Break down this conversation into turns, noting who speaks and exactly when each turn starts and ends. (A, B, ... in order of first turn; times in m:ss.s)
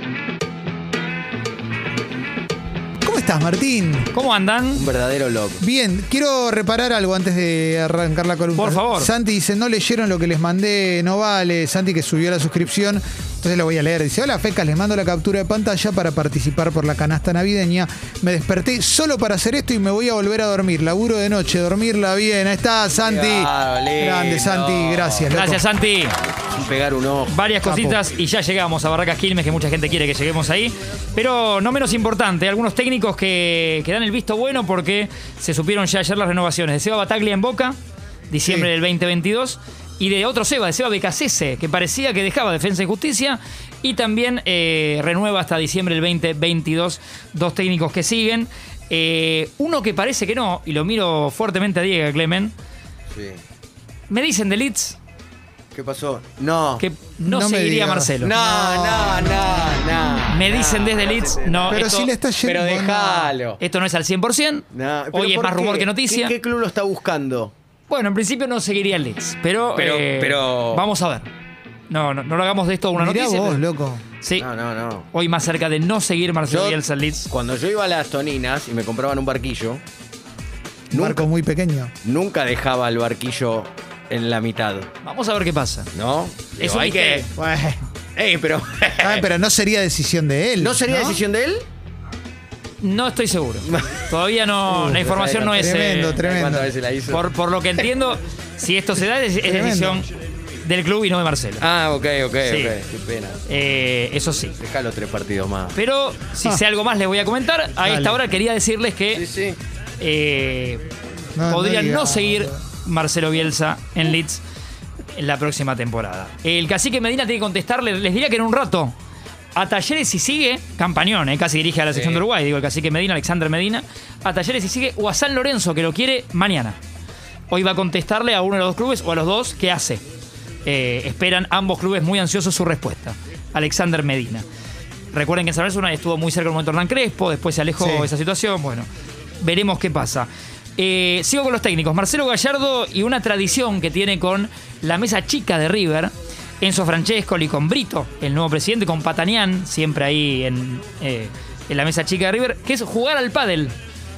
0:03.0-0:04.1 A
0:04.1-0:04.9 B
0:04.8-0:05.6 C
0:05.6-0:25.6 A
0:08.6-0:09.1 B
0:22.9-0:25.3 C
0:25.3-0:26.1 B
0:26.5-0:27.4 C
0:27.3-0:37.8 B
0:27.6-0:28.0 A
0:38.3-0:52.5 B
0:53.1-0:53.4 C
0:54.1-0:55.0 B
0:55.7-0:56.8 C
0:56.8-0:58.3 B
0:57.2-0:59.4 A
0:58.2-1:01.8 C
1:00.3-1:02.1 B
1:01.7-1:03.3 A
1:02.4-1:03.6 C
1:03.6-1:06.3 B
1:04.7-1:07.5 C
1:07.9-1:11.3 B
1:09.8-1:10.9 C
1:11.9-1:13.6 B
1:13.0-1:14.0 A
1:14.2-1:14.5 B
1:14.4-1:15.1 C
1:15.1-1:17.3 B
1:16.5-1:19.8 C
1:20.9-1:21.3 C
1:20.9-1:21.9 A
1:22.0-1:24.9 C
1:25.0-1:25.9 B
1:25.9-1:27.3 C
1:26.6-1:27.3 B
1:27.3-1:27.8 A
1:28.2-1:29.3 C
1:29.0-1:31.2 A
1:30.6-1:31.7 C
1:32.8-1:36.2 B
1:34.8-1:37.3 C
1:35.5-1:36.7 A
1:37.1-1:40.1 B
1:39.4-1:40.0 A
1:40.6-1:41.6 B
1:41.6-1:43.4 C
1:42.4-1:42.8 B
1:43.5-1:44.6 B
1:44.6-1:45.8 C
1:45.8-1:49.2 B
1:47.8-1:48.2 A
1:49.1-1:49.6 C
1:50.0-1:50.8 B
1:51.4-1:52.6 A
1:51.5-1:54.4 B
1:55.1-1:58.9 B
1:59.5-2:06.8 B
2:01.9-2:02.2 C
2:07.5-2:10.0 B
2:10.6-2:14.4 B
2:15.1-2:18.9 B
2:17.8-2:18.1 A
2:19.4-2:33.7 B